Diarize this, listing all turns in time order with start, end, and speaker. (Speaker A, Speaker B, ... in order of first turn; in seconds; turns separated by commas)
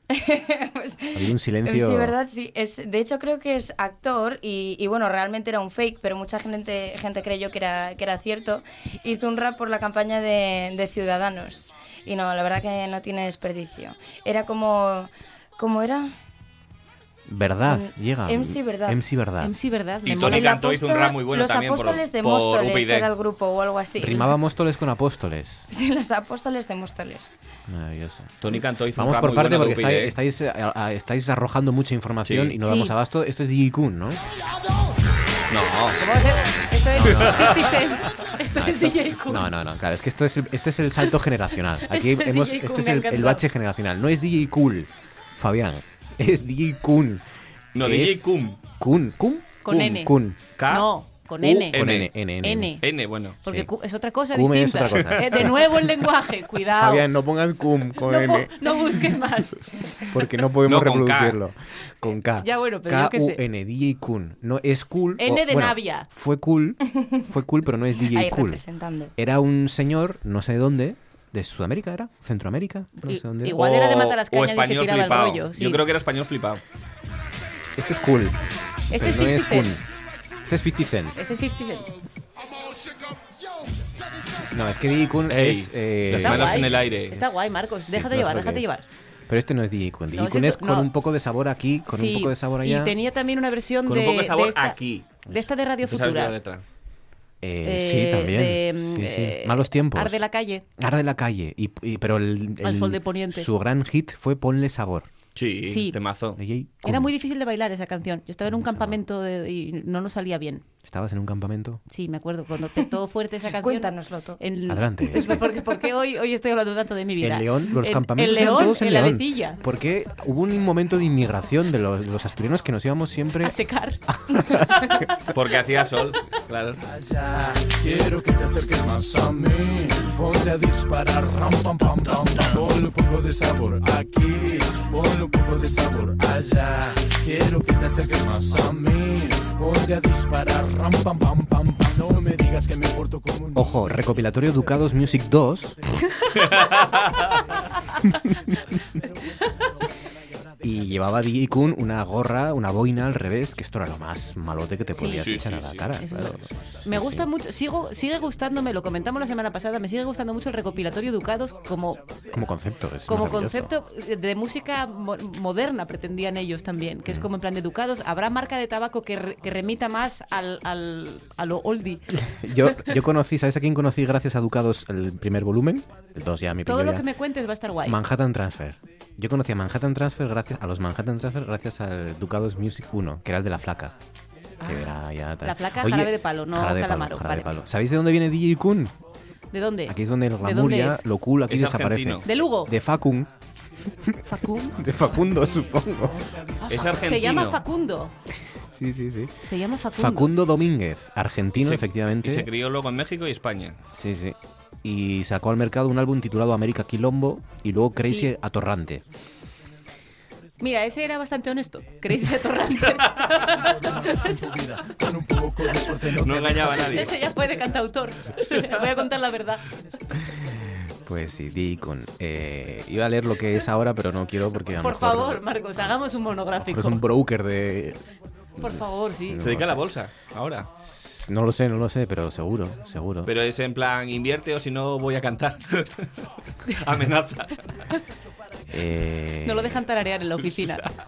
Speaker A: 0.2-16.1, Speaker B: 1.1-2.1, Speaker B: 17.3-19.5, Speaker A: 17.7-19.0, Speaker C: 19.4-20.7, Speaker D: 20.0-23.1, Speaker A: 20.3-24.3, Speaker B: 24.0-25.6, Speaker A: 25.7-27.4, Speaker B: 27.7-34.2, Speaker D: 28.4-30.1, Speaker D: 32.2-32.5, Speaker C: 32.6-32.9, Speaker D: 35.5-36.0, Speaker C: 36.0-39.5, Speaker B: 36.9-37.6, Speaker B: 38.5-50.4, Speaker C: 41.9-43.4, Speaker D: 47.7-48.6, Speaker C: 49.6-50.1, Speaker D: 50.6-50.9, Speaker C: 50.7-52.8, Speaker B: 51.4-52.7, Speaker D: 51.7-52.1, Speaker D: 52.8-53.4, Speaker C: 53.4-57.1, Speaker B: 53.4-53.7, Speaker B: 54.3-55.9, Speaker B: 56.8-58.6, Speaker C: 58.0-59.6, Speaker B: 60.1-68.6, Speaker D: 60.6-61.4, Speaker C: 62.4-63.4, Speaker C: 65.2-66.1, Speaker A: 68.0-69.1, Speaker B: 69.2-73.6, Speaker C: 73.0-75.8, Speaker D: 73.6-76.6, Speaker B: 77.8-78.4, Speaker C: 78.9-79.8, Speaker B: 78.9-79.8, Speaker B: 80.5-81.2, Speaker C: 81.2-82.0, Speaker B: 84.5-87.0, Speaker D: 85.3-87.2, Speaker C: 86.1-88.8, Speaker B: 87.9-92.9, Speaker C: 90.1-90.9, Speaker C: 91.9-96.4, Speaker D: 93.9-95.2, Speaker D: 95.8-96.6, Speaker B: 97.4-105.1, Speaker C: 97.6-100.6, Speaker C: 102.6-103.5, Speaker D: 105.3-106.4, Speaker C: 105.7-106.0, Speaker B: 106.3-107.1, Speaker C: 106.8-110.6, Speaker B: 108.5-109.0, Speaker B: 110.8-111.8, Speaker C: 111.9-119.6, Speaker A: 113.5-114.4, Speaker B: 114.7-115.3, Speaker B: 117.2-124.9, Speaker C: 123.4-124.0, Speaker D: 125.3-126.8, Speaker E: 126.8-144.9, Speaker B: 143.5-145.8, Speaker E: 146.0-146.9, Speaker D: 146.6-147.1, Speaker B: 150.6-157.3, Speaker C: 155.0-155.4, Speaker D: 155.1-155.9, Speaker C: 156.0-162.2, Speaker B: 162.3-163.7, Speaker C: 163.1-172.1, Speaker B: 172.1-177.1, Speaker C: 176.7-178.0, Speaker B: 177.8-183.9, Speaker C: 184.6-184.9, Speaker B: 184.6-188.9, Speaker C: 185.4-187.5, Speaker C: 189.5-191.0, Speaker B: 189.9-193.3, Speaker D: 191.5-192.3, Speaker C: 192.2-192.7, Speaker C: 194.3-194.7, Speaker B: 194.7-196.2, Speaker E: 194.9-197.2, Speaker D: 196.7-197.6, Speaker C: 196.9-198.1, Speaker B: 198.7-202.5, Speaker C: 199.4-200.4, Speaker D: 201.6-203.8, Speaker B: 203.9-209.0, Speaker C: 208.0-208.3, Speaker C: 210.6-214.4, Speaker E: 213.4-217.1, Speaker D: 216.2-217.1, Speaker C: 216.8-219.6, Speaker B: 220.9-225.4, Speaker C: 224.8-227.0, Speaker B: 226.6-228.0, Speaker B: 228.6-229.8, Speaker C: 228.6-229.4, Speaker D: 229.4-230.7, Speaker B: 230.8-233.3, Speaker D: 233.2-236.0, Speaker D: 236.8-237.5, Speaker B: 238.7-239.8, Speaker C: 239.4-240.8